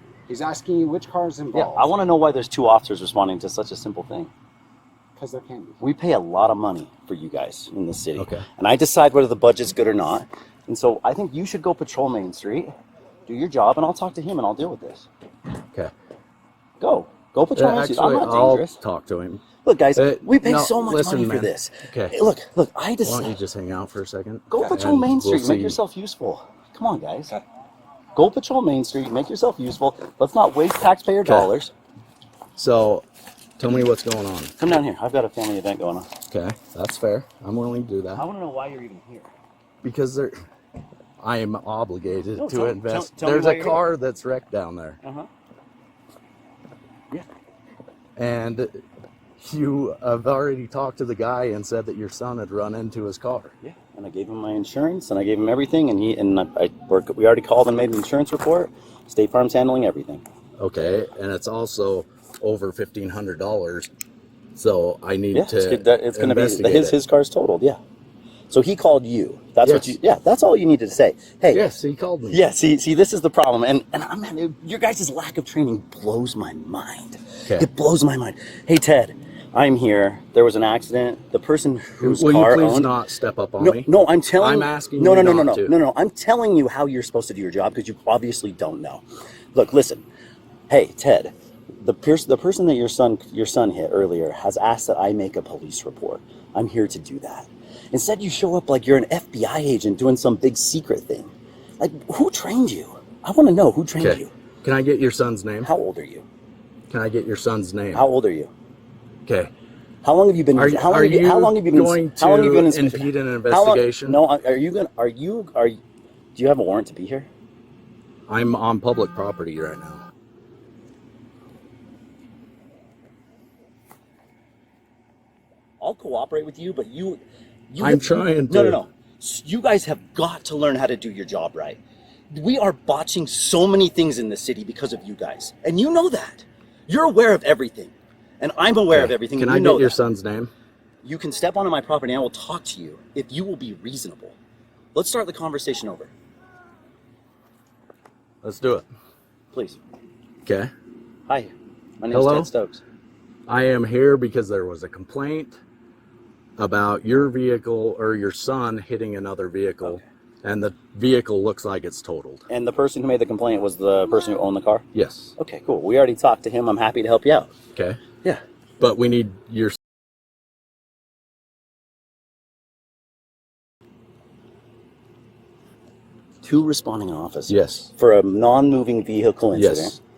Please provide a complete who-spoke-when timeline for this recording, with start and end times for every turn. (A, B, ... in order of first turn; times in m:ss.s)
0:00.3-0:01.9 A
0:01.5-0:04.3 B
0:05.2-0:05.8 A
0:05.8-0:12.7 B
0:08.2-0:08.4 C
0:13.3-0:15.1 B
0:16.8-0:18.8 B
0:17.6-0:19.4 C
0:19.6-0:23.4 B
0:19.9-0:22.2 C
0:23.0-0:25.8 C
0:24.5-0:27.4 B
0:28.1-0:31.7 B
0:31.2-0:31.5 C
0:32.5-0:33.0 C
0:33.6-0:34.6 C
0:34.6-0:36.1 B
0:36.3-0:38.2 C
0:38.1-0:39.3 B
0:39.8-0:40.4 C
0:41.2-0:45.0 C
0:42.4-0:43.8 B
0:45.0-0:45.3 B
0:48.2-0:48.8 C
0:49.4-0:53.5 C
0:53.6-1:00.2 B
1:00.6-1:03.9 C
1:04.5-1:07.0 C
1:05.3-1:07.8 B
1:08.5-1:11.7 B
1:09.6-1:10.0 C
1:11.5-1:12.4 C
1:12.3-1:22.9 B
1:22.0-1:25.7 C
1:23.6-1:30.0 B
1:30.7-1:44.3 B
1:44.0-1:45.7 C
1:45.6-1:46.2 B
1:46.9-1:48.0 C
1:47.9-1:48.5 B
1:49.2-1:49.5 C
1:50.0-1:55.8 B
1:50.5-1:54.2 C
1:56.3-1:57.3 B
1:58.3-2:00.0 C
2:05.8-2:11.8 B
2:07.8-2:08.8 C
2:12.3-2:20.0 B
2:18.9-2:20.5 C
2:21.0-2:24.4 B
2:24.9-2:26.1 B
2:28.4-2:28.8 C
2:29.5-2:29.8 B
2:30.4-2:30.7 C
2:31.3-2:32.8 B
2:32.1-2:32.5 C
2:33.5-2:35.6 C
2:36.6-2:42.4 C
2:42.5-2:44.8 B
2:44.9-2:45.3 C
2:45.4-2:47.5 B
2:47.7-2:48.0 C
2:48.8-2:49.8 C
2:56.4-3:00.0 B
2:57.5-2:57.9 C
2:59.5-2:59.9 C